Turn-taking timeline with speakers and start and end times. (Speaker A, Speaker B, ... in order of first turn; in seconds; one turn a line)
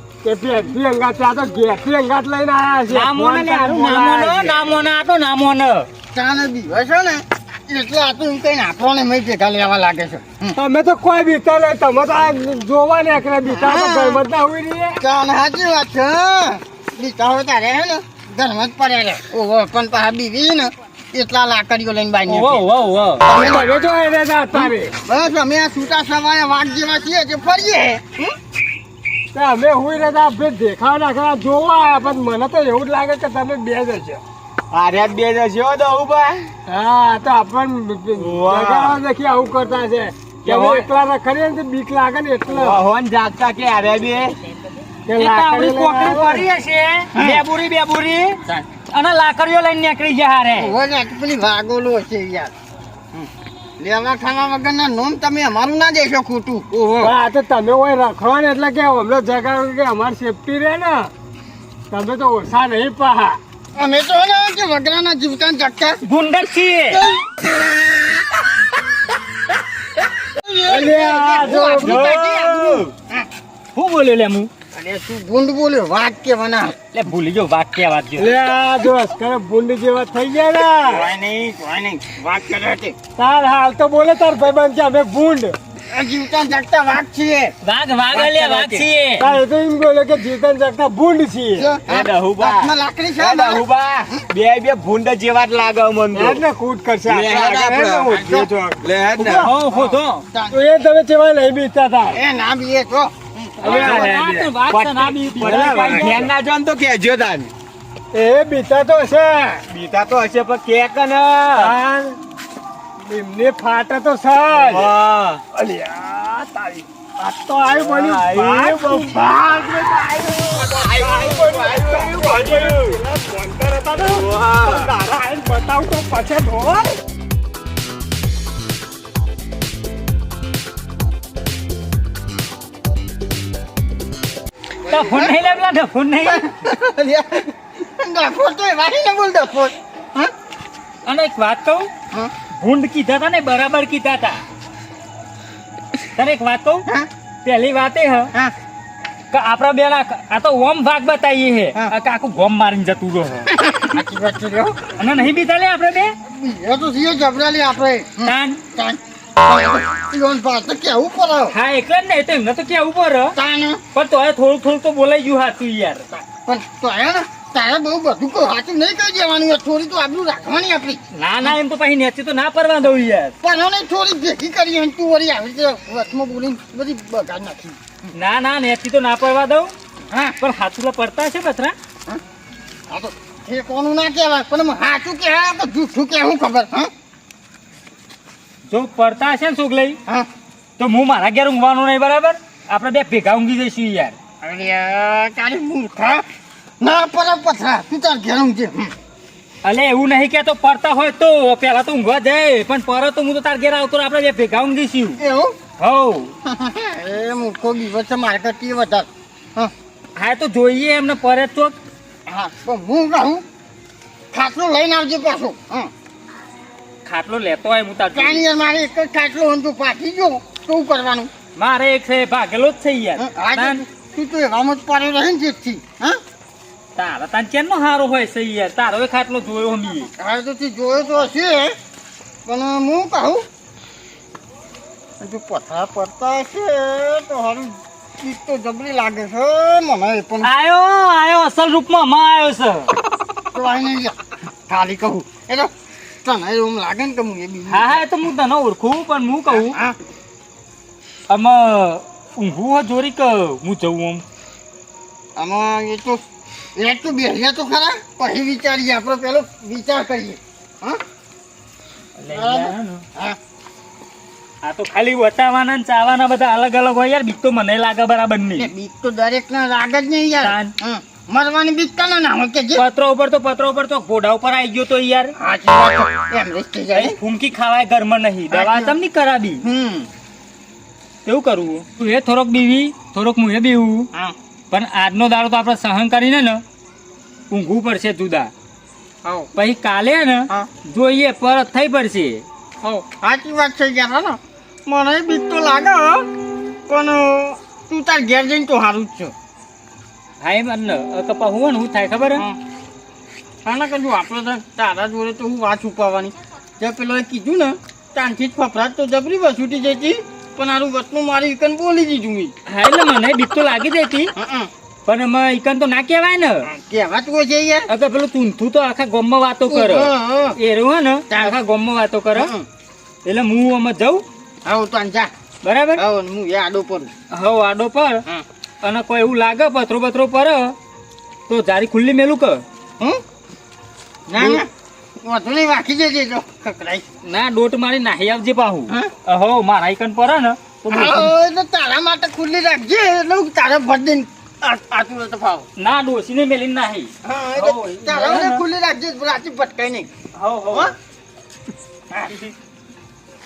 Speaker A: 0.2-4.6
Speaker B: 2.9-5.9
Speaker C: 6.1-10.6
Speaker A: 10.5-15.0
Speaker C: 13.5-14.2
Speaker C: 15.0-22.6
Speaker B: 22.3-23.2
Speaker C: 23.2-23.7
Speaker A: 23.3-24.9
Speaker C: 24.5-28.3
Speaker A: 29.3-34.2
Speaker D: 34.7-36.5
Speaker A: 36.6-42.8
Speaker D: 38.1-39.0
Speaker D: 40.4-40.9
Speaker D: 42.5-44.4
Speaker A: 45.0-46.5
Speaker B: 45.1-47.1
Speaker C: 47.1-47.4
Speaker D: 47.1-48.4
Speaker B: 48.9-50.7
Speaker C: 50.5-52.5
Speaker C: 53.8-57.1
Speaker A: 57.0-61.1
Speaker A: 61.9-63.4
Speaker C: 63.7-66.0
Speaker B: 66.0-67.0
Speaker C: 67.0-67.3
Speaker C: 70.3-73.3
Speaker A: 70.6-72.1
Speaker D: 71.8-72.9
Speaker B: 73.7-74.5
Speaker C: 74.7-76.8
Speaker B: 76.9-78.3
Speaker A: 78.2-81.0
Speaker C: 80.9-83.0
Speaker A: 83.2-85.5
Speaker C: 85.9-87.5
Speaker B: 87.6-89.3
Speaker C: 88.1-88.9
Speaker A: 89.2-91.7
Speaker C: 91.6-93.6
Speaker D: 91.9-96.4
Speaker A: 96.1-98.8
Speaker D: 97.0-98.2
Speaker C: 98.1-98.5
Speaker D: 98.8-99.5
Speaker B: 99.2-100.2
Speaker C: 99.2-100.6
Speaker A: 100.5-102.2
Speaker C: 102.1-104.1
Speaker B: 103.6-106.3
Speaker D: 103.6-107.5
Speaker A: 105.4-106.2
Speaker A: 108.1-109.6
Speaker D: 109.7-111.7
Speaker A: 111.6-112.2
Speaker A: 113.0-114.9
Speaker D: 114.5-115.4
Speaker A: 115.5-127.0
Speaker D: 117.7-119.4
Speaker D: 120.5-123.0
Speaker D: 124.0-124.9
Speaker B: 134.8-136.4
Speaker C: 134.9-135.3
Speaker C: 136.2-140.3
Speaker B: 141.1-141.9
Speaker B: 142.6-144.4
Speaker B: 146.2-146.9
Speaker B: 147.4-148.3
Speaker B: 149.3-153.5
Speaker C: 153.6-154.9
Speaker B: 155.0-156.2
Speaker C: 156.2-161.6
Speaker B: 158.2-158.6
Speaker B: 161.5-163.3
Speaker C: 163.3-163.8
Speaker B: 163.9-166.1
Speaker C: 166.4-171.6
Speaker B: 171.1-173.3
Speaker C: 173.4-178.1
Speaker B: 178.1-179.7
Speaker C: 180.1-180.4
Speaker B: 180.4-181.7
Speaker C: 182.9-186.9
Speaker B: 188.7-190.0
Speaker B: 190.8-194.1
Speaker C: 194.4-196.2
Speaker C: 196.8-198.9
Speaker B: 199.6-205.2
Speaker C: 205.2-205.6
Speaker B: 205.8-206.3
Speaker C: 206.4-209.7
Speaker B: 210.2-211.8
Speaker C: 212.2-213.4
Speaker C: 214.3-215.9
Speaker B: 217.0-218.4
Speaker C: 218.1-221.3
Speaker B: 221.6-223.8
Speaker C: 223.2-226.2
Speaker B: 226.9-230.1
Speaker C: 230.1-231.8
Speaker C: 232.4-233.4
Speaker C: 235.2-240.5
Speaker B: 240.4-242.9
Speaker C: 243.5-244.2
Speaker C: 244.7-245.7
Speaker C: 246.2-248.0
Speaker B: 247.7-249.8
Speaker C: 249.5-249.9
Speaker B: 251.3-254.2
Speaker C: 255.3-256.2
Speaker C: 256.8-261.0
Speaker B: 262.2-263.0
Speaker C: 262.3-263.4
Speaker B: 264.6-268.7
Speaker C: 268.6-272.9
Speaker B: 270.4-270.7
Speaker B: 272.7-275.3
Speaker C: 275.4-277.2
Speaker B: 276.9-279.6
Speaker C: 278.5-278.9
Speaker C: 279.6-280.1
Speaker B: 281.2-284.1
Speaker B: 284.7-286.6
Speaker B: 287.5-288.5
Speaker C: 289.2-289.5
Speaker B: 289.6-292.4
Speaker C: 292.8-296.3
Speaker C: 296.9-299.3
Speaker B: 300.4-302.4
Speaker C: 303.6-312.5
Speaker B: 312.6-314.3
Speaker C: 314.4-314.7
Speaker B: 315.1-316.6
Speaker C: 316.6-317.9
Speaker B: 317.9-322.5
Speaker C: 319.7-320.6
Speaker C: 321.3-321.6
Speaker C: 322.3-322.6
Speaker B: 323.2-324.2
Speaker C: 324.6-325.3
Speaker B: 325.6-326.0
Speaker C: 325.9-327.1
Speaker B: 327.3-328.2
Speaker B: 328.8-330.7
Speaker B: 331.5-332.6
Speaker C: 334.3-334.7
Speaker B: 334.4-334.6
Speaker C: 335.2-337.0
Speaker B: 337.2-341.3
Speaker C: 340.9-345.7
Speaker B: 345.8-348.6
Speaker C: 347.2-350.1
Speaker B: 350.3-350.9